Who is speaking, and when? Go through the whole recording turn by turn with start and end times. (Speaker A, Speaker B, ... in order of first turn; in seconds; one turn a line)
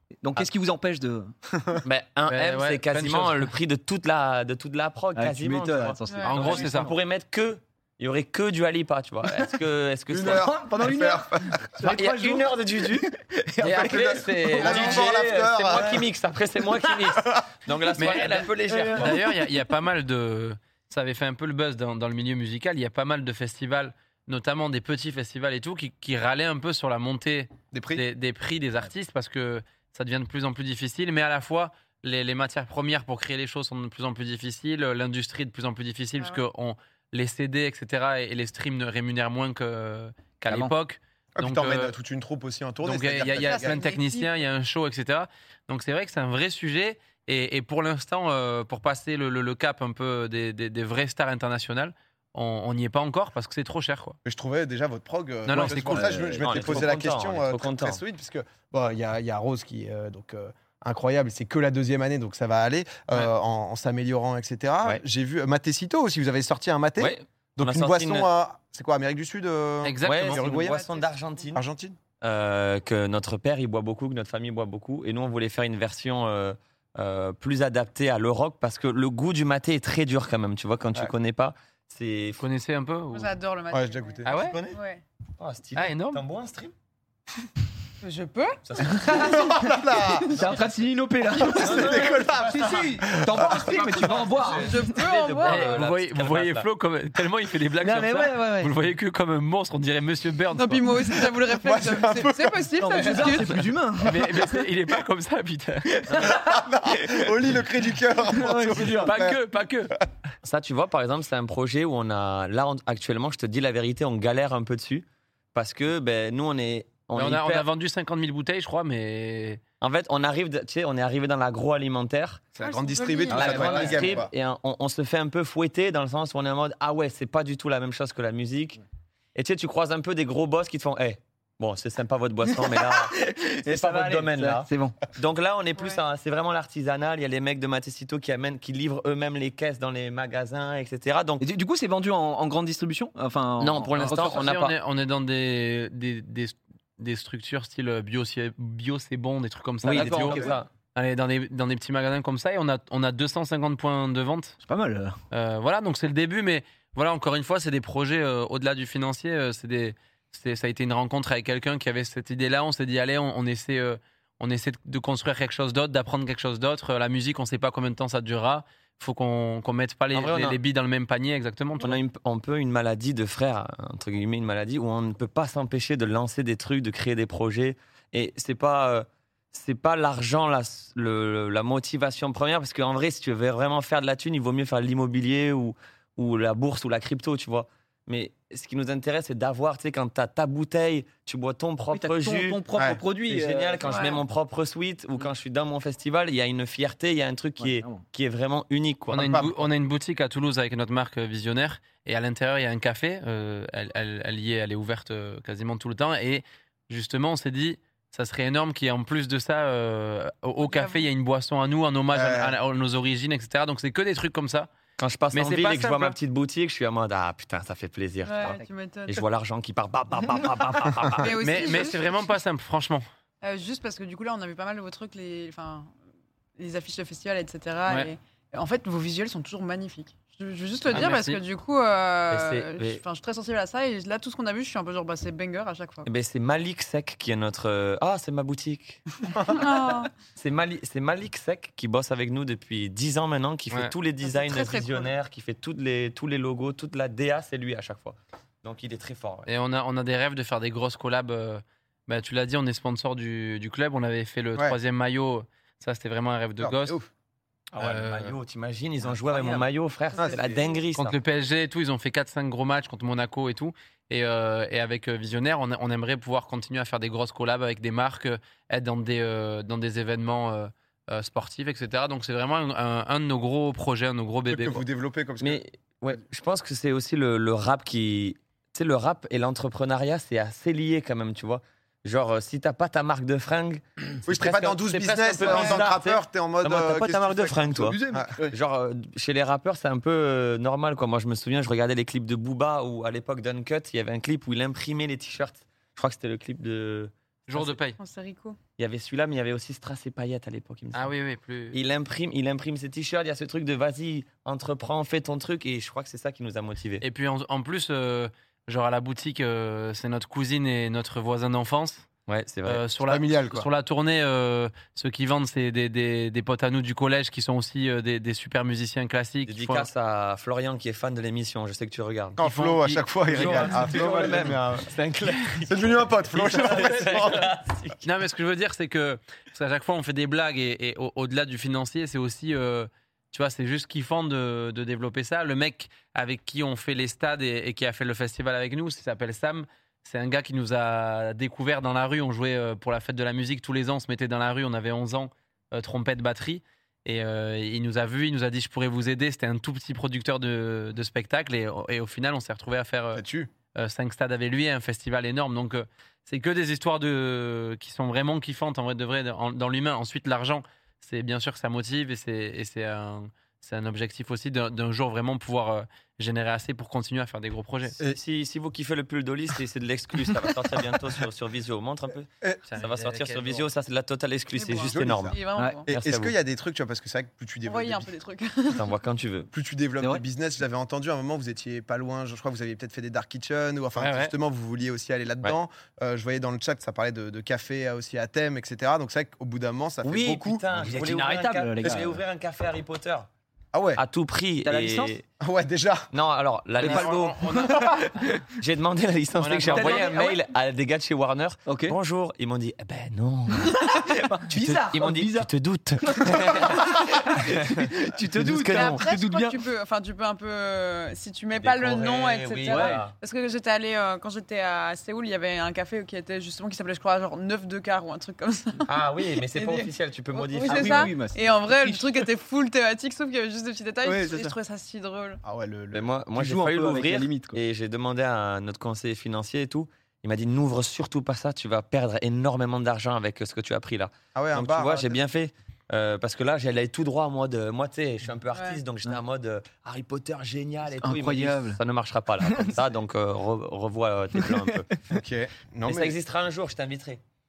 Speaker A: 0.2-1.3
Speaker B: 1.5-1.8
Speaker C: 1.8-10.6
Speaker D: 2.3-3.5
Speaker A: 5.1-6.9
Speaker E: 6.1-6.3
Speaker D: 6.2-6.9
Speaker B: 10.1-11.7
Speaker A: 10.2-15.1
Speaker C: 11.8-19.2
Speaker B: 13.6-16.1
Speaker A: 15.7-16.0
Speaker B: 16.9-17.4
Speaker D: 18.0-42.0
Speaker A: 18.7-19.3
Speaker B: 27.7-28.0
Speaker B: 41.4-43.8
Speaker D: 42.8-54.2
Speaker E: 43.3-44.4
Speaker B: 54.3-70.8
Speaker D: 55.5-56.3
Speaker A: 55.5-56.8
Speaker C: 56.4-58.0
Speaker C: 67.0-68.3
Speaker D: 69.8-70.4
Speaker C: 70.0-71.6
Speaker E: 70.5-71.2
Speaker B: 71.5-72.0
Speaker C: 72.2-82.4
Speaker D: 82.4-83.3
Speaker E: 83.1-85.0
Speaker B: 83.7-84.3
Speaker D: 84.2-84.6
Speaker C: 84.3-84.8
Speaker C: 85.4-86.7
Speaker D: 85.8-86.2
Speaker E: 88.0-90.5
Speaker C: 88.6-89.2
Speaker A: 88.9-89.5
Speaker B: 89.0-90.4
Speaker A: 90.2-95.0
Speaker C: 90.3-90.7
Speaker B: 91.4-93.9
Speaker C: 91.6-96.7
Speaker E: 94.5-95.8
Speaker D: 95.4-100.9
Speaker A: 97.8-98.7
Speaker E: 100.6-103.7
Speaker B: 101.5-102.7
Speaker A: 102.8-104.6
Speaker D: 104.0-107.3
Speaker B: 106.1-109.4
Speaker A: 108.3-109.2
Speaker D: 109.0-110.0
Speaker C: 110.4-117.7
Speaker D: 117.2-119.6
Speaker C: 119.8-122.4
Speaker B: 122.5-124.3
Speaker E: 122.6-124.2
Speaker C: 123.3-128.8
Speaker C: 129.3-141.5
Speaker A: 132.5-135.0
Speaker E: 135.8-136.0
Speaker A: 141.4-144.5
Speaker C: 143.6-144.7
Speaker D: 144.0-154.6
Speaker C: 149.8-150.7
Speaker A: 149.9-150.5
Speaker A: 154.6-155.2
Speaker D: 155.3-172.0
Speaker C: 170.1-170.6
Speaker C: 171.8-192.6
Speaker A: 191.9-194.2
Speaker C: 193.2-199.4
Speaker E: 193.8-194.2
Speaker A: 197.6-198.1
Speaker D: 199.1-214.7
Speaker B: 199.2-199.6
Speaker E: 210.6-211.1
Speaker B: 212.1-212.6
Speaker C: 215.0-221.8
Speaker D: 215.3-216.2
Speaker E: 218.2-219.2
Speaker E: 221.2-222.1
Speaker D: 221.4-223.1
Speaker E: 223.4-225.9
Speaker E: 226.6-236.1
Speaker D: 230.9-231.4
Speaker C: 232.3-233.0
Speaker C: 236.1-239.7
Speaker E: 239.4-240.1
Speaker C: 240.4-249.5
Speaker E: 244.2-245.1
Speaker D: 249.5-257.0
Speaker B: 256.6-257.1
Speaker D: 257.8-258.4
Speaker C: 257.8-261.1
Speaker E: 260.1-260.8
Speaker B: 260.2-260.6
Speaker D: 260.9-274.8
Speaker B: 274.5-275.6
Speaker C: 275.4-288.0
Speaker B: 284.2-288.3
Speaker A: 287.7-288.6
Speaker C: 288.5-297.7
Speaker D: 297.5-298.0
Speaker E: 298.0-298.6
Speaker C: 298.8-301.1
Speaker D: 300.9-301.8
Speaker C: 301.7-307.0
Speaker D: 307.0-312.1
Speaker C: 312.3-312.9
Speaker D: 312.6-319.9
Speaker B: 313.1-313.7
Speaker C: 319.5-322.4
Speaker B: 322.4-324.9
Speaker D: 322.4-324.5
Speaker C: 323.3-328.0
Speaker B: 325.7-327.5
Speaker D: 326.6-327.4
Speaker D: 328.0-353.2
Speaker B: 353.1-353.5
Speaker D: 353.8-368.0
Speaker C: 368.1-376.3
Speaker D: 372.7-373.7
Speaker E: 374.6-375.9
Speaker B: 374.8-378.1
Speaker E: 377.7-378.9
Speaker C: 378.7-379.5
Speaker B: 379.5-390.7
Speaker D: 384.0-384.3
Speaker C: 390.0-393.3
Speaker A: 390.7-392.2
Speaker B: 393.7-394.0
Speaker C: 394.0-395.2
Speaker A: 394.7-395.2
Speaker B: 395.4-396.1
Speaker C: 396.1-398.1
Speaker D: 396.8-398.1
Speaker A: 396.8-398.4
Speaker C: 398.6-409.1
Speaker D: 399.4-400.1
Speaker A: 399.6-400.4
Speaker A: 401.7-402.0
Speaker A: 403.5-405.5
Speaker A: 406.0-409.6
Speaker E: 408.7-425.4
Speaker C: 411.6-413.1
Speaker A: 412.7-413.0
Speaker C: 418.9-421.1
Speaker A: 420.7-422.2
Speaker A: 424.1-424.6
Speaker B: 425.4-426.1
Speaker C: 425.9-444.9
Speaker A: 426.4-427.6
Speaker B: 434.4-435.2
Speaker E: 438.5-438.8
Speaker A: 440.9-441.8
Speaker A: 442.4-442.8
Speaker A: 444.4-444.9
Speaker B: 445.1-446.2
Speaker C: 445.9-447.2